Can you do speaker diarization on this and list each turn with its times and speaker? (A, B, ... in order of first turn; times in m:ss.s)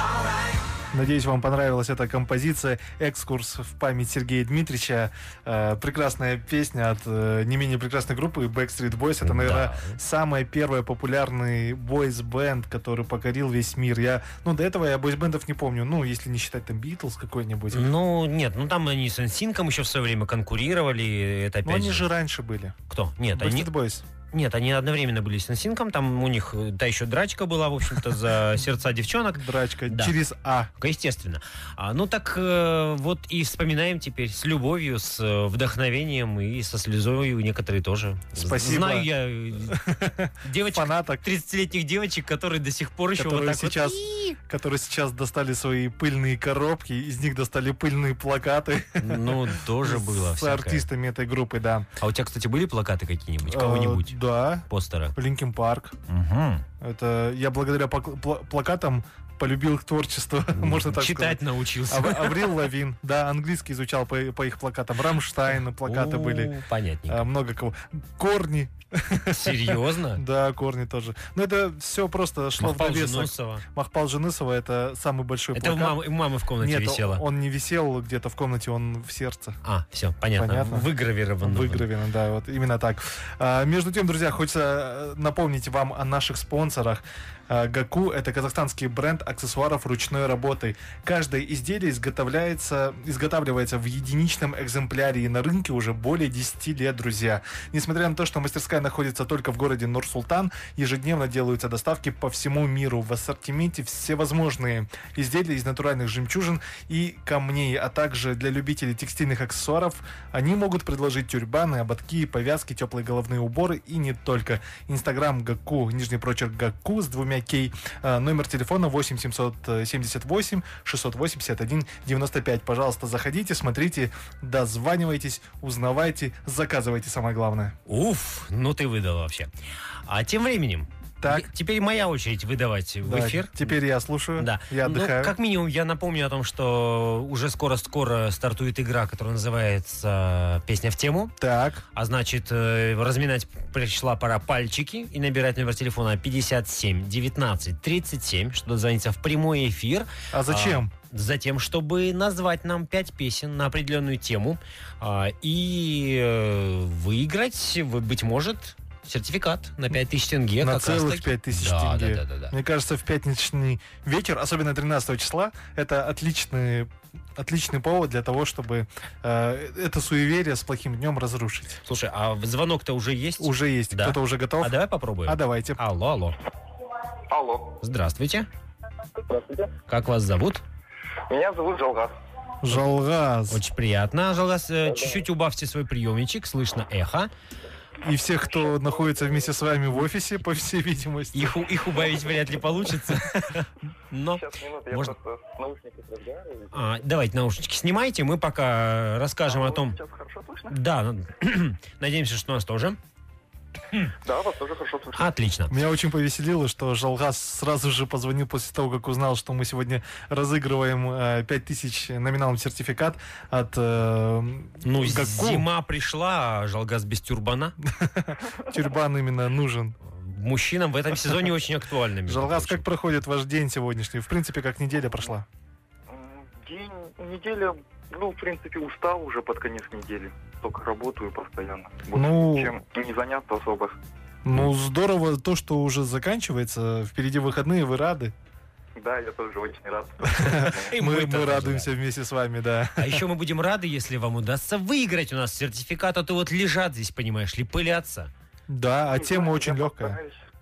0:00.9-0:17.9 A
0:09.2-0:10.0 B
0:17.7-0:22.1 B
0:21.6-0:22.8 A
0:22.9-0:23.7 B
0:23.3-0:24.0 A
0:24.3-0:30.2 B
0:29.3-0:30.7 A
0:30.8-0:39.8 B
0:38.4-0:41.2 A
0:40.4-0:44.4 B
0:43.2-0:51.9 A
0:49.0-0:50.9 B
0:52.0-0:55.2 B
0:53.4-0:56.0 A
0:56.1-0:56.6 B
0:56.8-1:06.6 A
1:00.6-1:02.6 B
1:05.8-1:07.3 B
1:07.1-1:16.0 A
1:09.3-1:10.2 B
1:12.6-1:13.6 B
1:15.6-1:17.2 B
1:16.6-1:19.6 A
1:19.6-1:21.9 B
1:20.4-1:20.9 A
1:21.4-2:07.8 A
2:07.9-2:09.5 B
2:10.1-2:13.7 B
2:11.2-2:11.5 A
2:13.0-2:15.4 A
2:14.4-2:21.4 B
2:21.4-2:21.8 A
2:21.9-2:42.5 B
2:30.3-2:30.9 A
2:40.6-2:51.8 A
2:51.8-2:56.4 B
2:53.4-2:55.8 A
2:57.3-2:57.8 C
2:57.8-2:58.5 B
2:59.2-2:59.7 C
2:59.9-3:00.6 B
3:01.3-3:02.2 C
3:02.6-3:03.6 A
3:03.5-3:07.3 B
3:04.9-3:05.2 C
3:08.0-3:11.6 A
3:08.4-3:09.5 C
3:11.3-3:15.2 B
3:12.1-3:12.4 C
3:14.4-3:16.9 C
3:16.7-3:20.0 B
3:19.5-3:20.8 C
3:20.7-3:23.0 B
3:24.2-3:25.3 C
3:25.2-3:25.8 B
3:25.7-3:35.7 A
3:34.8-3:37.8 B
3:37.8-3:40.0 A
3:40.0-3:42.8 B
3:42.3-3:45.5 A
3:46.1-3:54.0 C
3:52.1-3:52.8 A
3:54.4-3:58.3 A
3:59.0-4:00.9 C
4:00.2-4:03.2 A
4:00.6-4:01.9 B
4:03.0-4:08.3 B
4:08.7-4:10.2 A
4:09.1-4:10.4 C